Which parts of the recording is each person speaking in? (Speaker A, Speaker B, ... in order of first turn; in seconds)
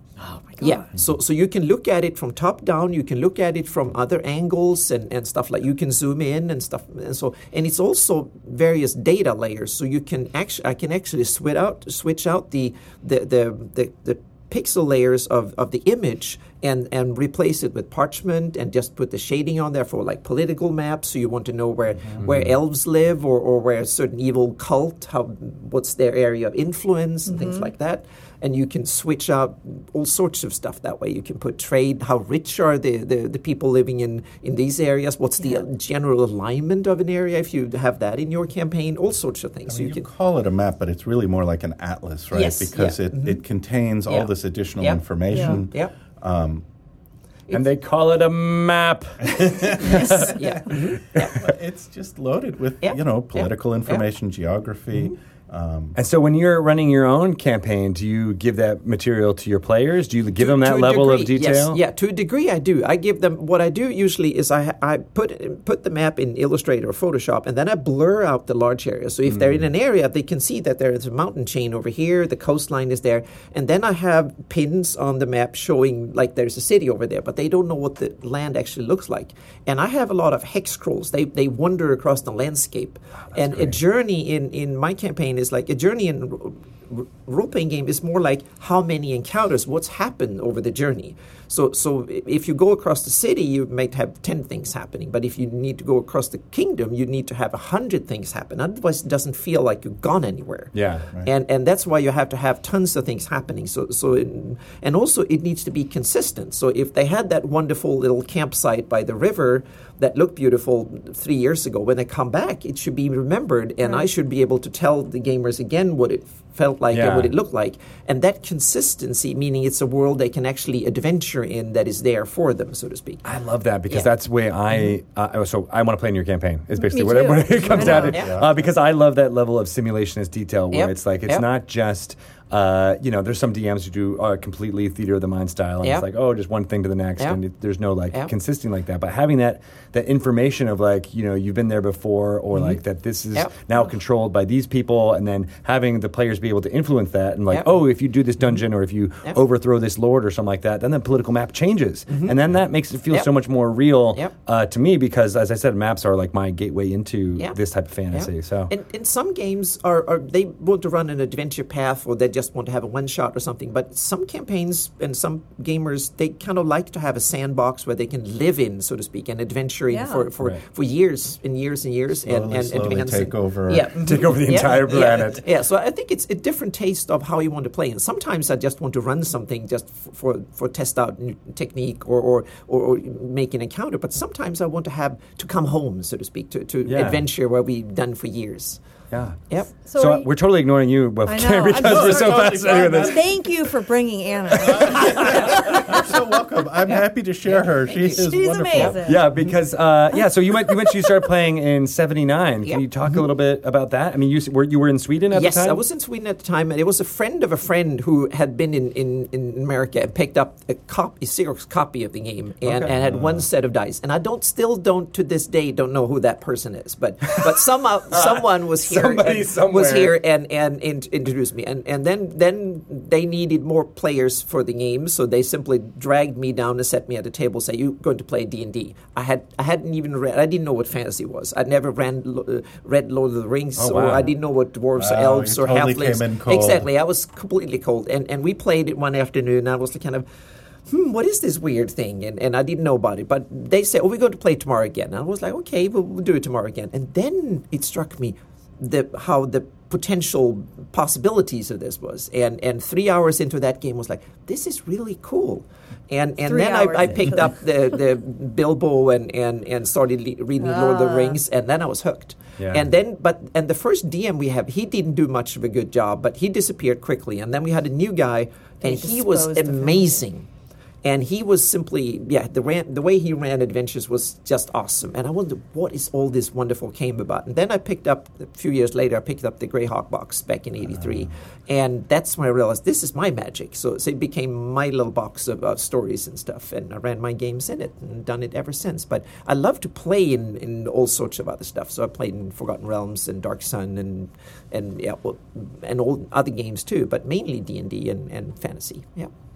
Speaker A: 0.2-0.8, 27.3-27.7, 45.3-45.6, 126.8-128.2, 169.9-170.3, 189.8-190.3, 191.2-195.8, 198.0-199.2, 256.4-257.6, 260.6-261.4, 268.8-270.2
Speaker B: 0.6-40.1, 42.3-43.4, 44.1-45.9, 49.7-51.4, 52.8-54.0, 60.4-123.2, 127.8-128.4, 130.7-131.4, 135.8-136.1, 147.5-147.8, 152.1-152.4, 158.1-188.8, 195.3-195.8, 196.8-199.0, 202.6-203.2, 205.3-240.2, 240.9-270.5, 271.0-299.3
Speaker C: 22.2-22.5, 47.5-49.2, 49.8-50.4, 55.9-61.8, 83.3-83.8, 100.7-101.0, 116.9-117.3, 123.2-158.7, 174.0-175.4, 186.8-187.2, 189.1-189.4, 189.9-193.2, 194.8-195.3, 199.0-205.8, 212.6-212.9, 218.1-220.2, 233.8-234.3, 262.6-262.9
Speaker D: 39.7-46.6, 49.3-50.2, 51.3-56.0, 127.7-128.6, 172.2-173.9, 191.7-193.4, 194.5-199.2, 213.0-213.4, 234.9-236.9, 281.0-281.2